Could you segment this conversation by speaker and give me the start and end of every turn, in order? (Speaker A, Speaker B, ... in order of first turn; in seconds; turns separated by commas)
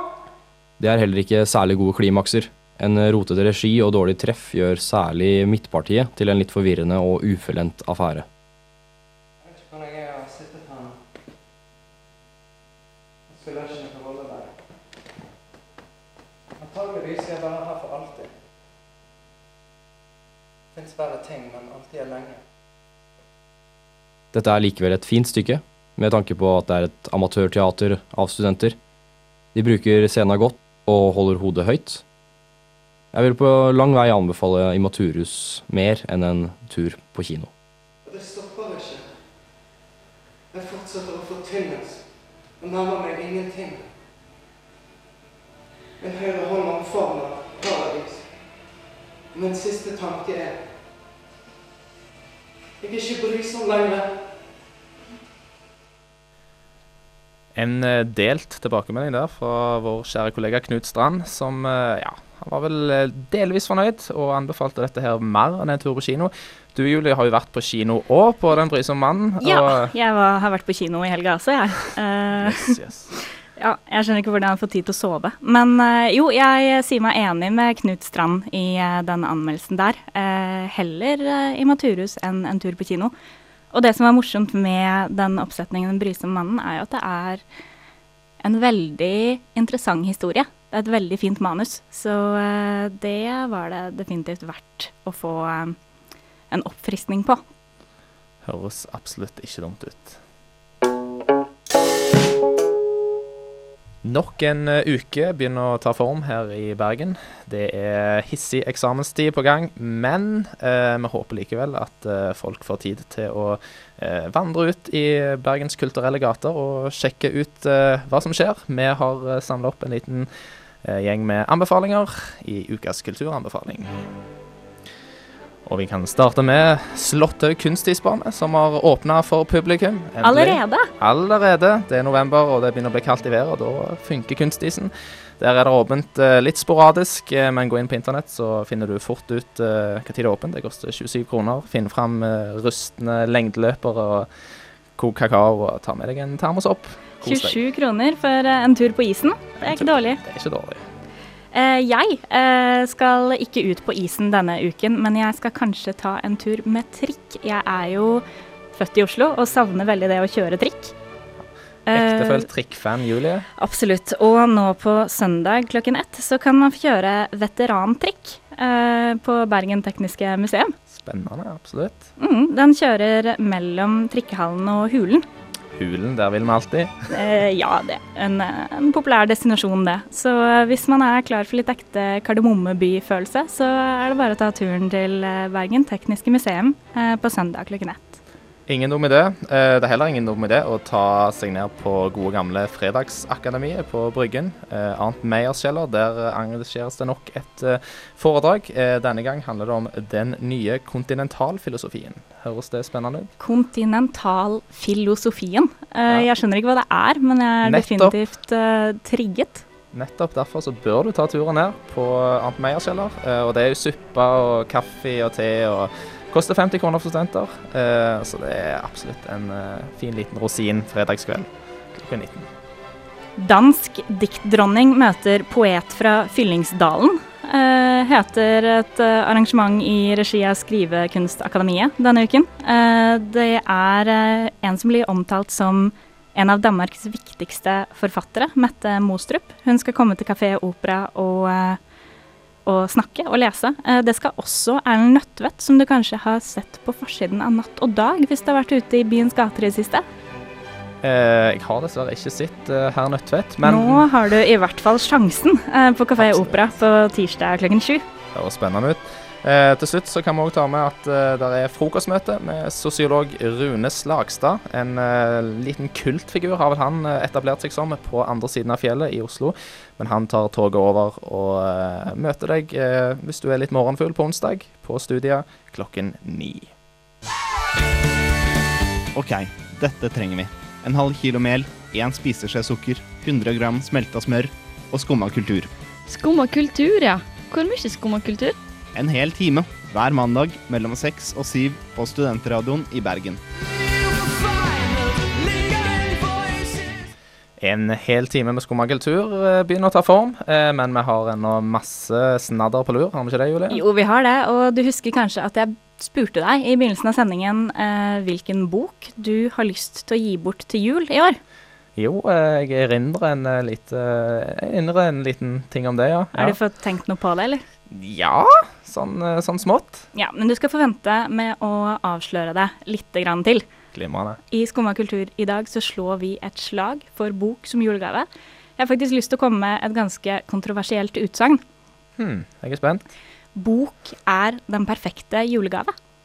Speaker A: 0.8-8.2, Speaker B: 9.4-11.0, Speaker B: 13.3-14.6, Speaker B: 16.6-18.3, Speaker B: 20.7-22.4, Speaker A: 24.3-28.8, Speaker A: 29.5-32.0, Speaker A: 33.1-37.5, Speaker B: 38.0-39.2, Speaker B: 40.5-44.0, Speaker B: 46.0-48.7, Speaker B: 49.3-51.0, Speaker B: 52.8-54.4, Speaker C: 57.5-69.9, Speaker D: 69.4-72.8, Speaker C: 72.3-73.1, Speaker D: 73.5-83.1, Speaker D: 83.7-87.4, Speaker D: 88.4-95.8, Speaker D: 96.5-97.4, Speaker C: 98.4-100.2, Speaker C: 104.0-124.1, Speaker C: 125.6-147.6, Speaker D: 130.2-130.9, Speaker D: 147.2-150.2, Speaker C: 149.6-150.9, Speaker D: 151.5-160.9, Speaker D: 161.9-162.5, Speaker C: 161.9-163.4, Speaker D: 163.6-170.7, Speaker C: 170.9-172.1, Speaker D: 172.2-175.2, Speaker C: 175.7-177.2, Speaker D: 177.1-188.2, Speaker C: 188.7-203.3, Speaker D: 203.4-209.6, Speaker C: 207.6-208.2, Speaker C: 209.9-222.5, Speaker D: 223.4-241.8, Speaker D: 242.7-250.0, Speaker C: 251.0-254.1, Speaker D: 253.6-258.0, Speaker C: 256.2-256.6, Speaker C: 258.3-276.7, Speaker E: 279.1-285.7, Speaker F: 286.1-288.6, Speaker E: 288.9-293.4, Speaker C: 297.6-303.8, Speaker D: 303.7-311.4, Speaker C: 311.9-316.6, Speaker D: 316.3-317.6, Speaker C: 317.9-320.1, Speaker D: 320.1-323.6, Speaker C: 323.9-324.4, Speaker D: 324.5-331.6, Speaker C: 332.2-333.0, Speaker D: 333.5-335.9